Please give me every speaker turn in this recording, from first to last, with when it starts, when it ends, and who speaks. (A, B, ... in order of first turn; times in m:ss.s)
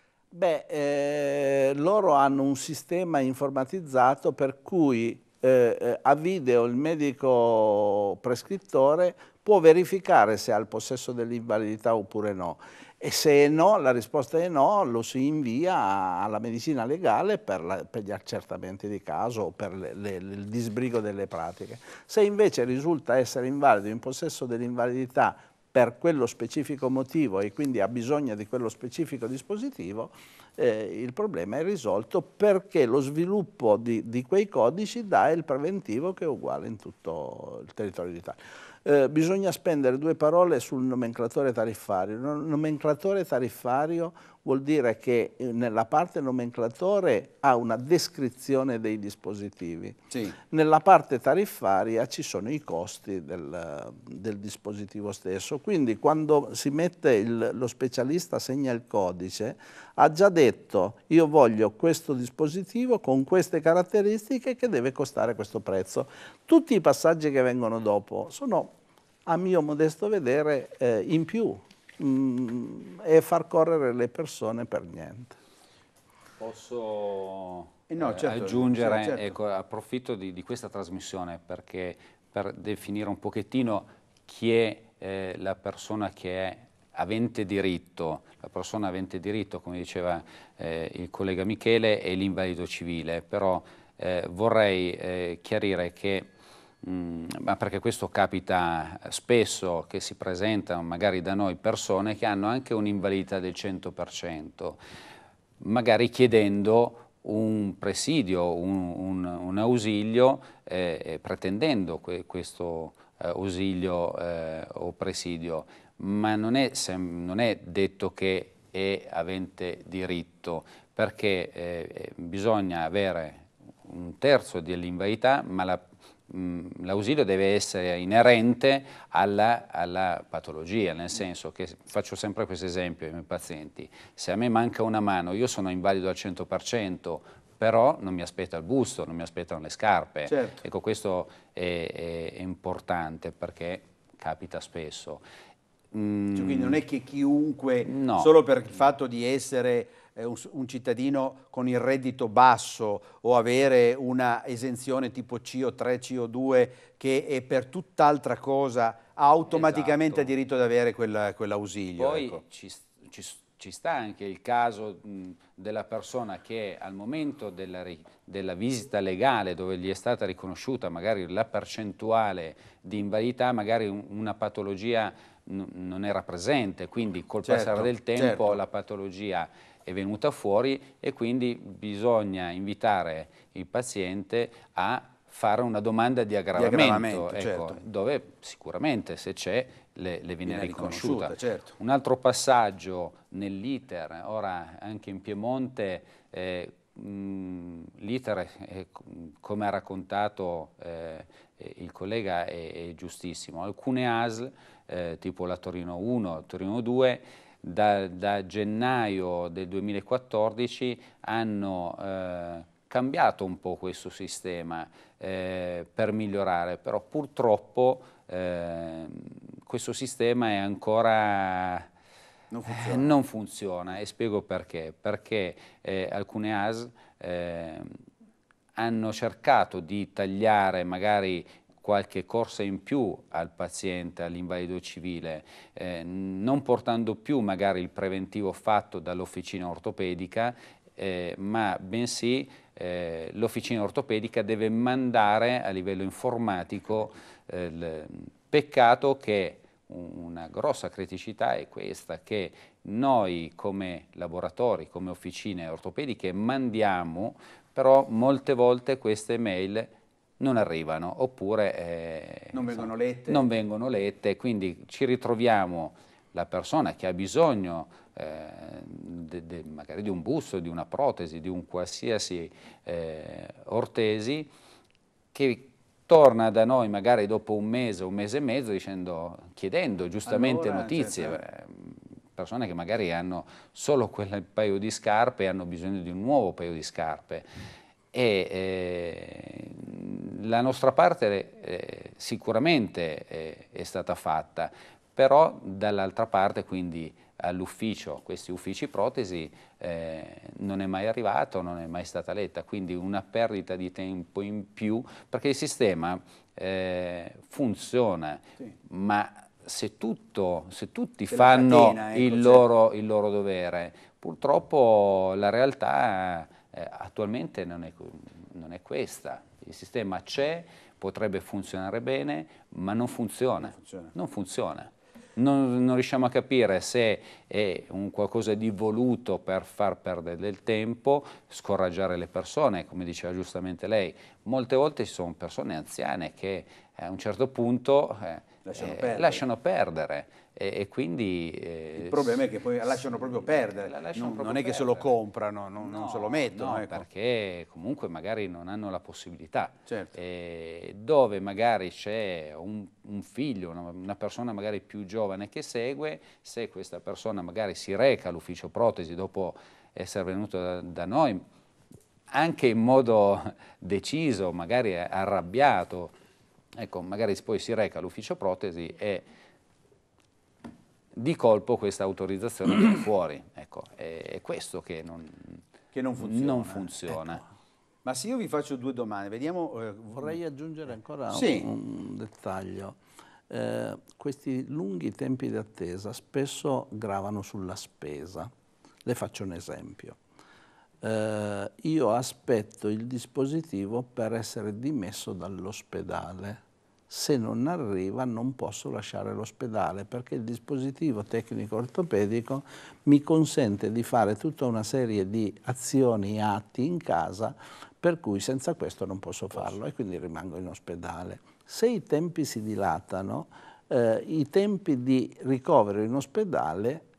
0:00.3-1:08.7 A
0:50.1-0:50.4 B
1:09.3-1:15.4 A
1:16.4-1:36.3 C
1:17.9-1:19.4 B
1:36.8-1:44.8 C
1:45.6-2:25.2 C
2:20.3-2:20.6 B
2:25.9-2:26.8 C
2:26.4-2:42.4 B
2:27.8-2:28.3 C
2:39.5-2:40.3 C
2:42.0-3:41.9 C
2:57.4-2:58.6 B
3:06.6-3:07.8 B
3:10.5-3:11.8 B
3:42.5-3:43.1 B
3:42.7-3:48.0 C
3:48.8-4:34.5 C
4:22.5-4:23.5 B
4:35.3-4:47.5 C
4:40.3-4:41.4 B
4:48.1-5:42.4 C
5:11.3-5:12.6 B
5:23.6-5:24.1 B
5:38.6-5:39.4 B
5:42.0-5:47.0 B
5:43.0-5:45.1 C
5:45.8-6:01.4 C
5:49.9-5:50.1 B
6:02.3-6:06.1 C
6:06.8-6:09.3 C
6:11.1-6:15.6 C
6:15.9-6:16.9 B
6:16.2-6:17.4 C
6:18.0-6:20.3 B
6:20.2-6:23.0 A
6:21.3-6:21.7 B
6:23.5-6:28.5 A
6:29.1-6:30.2 A
6:31.0-6:57.0 A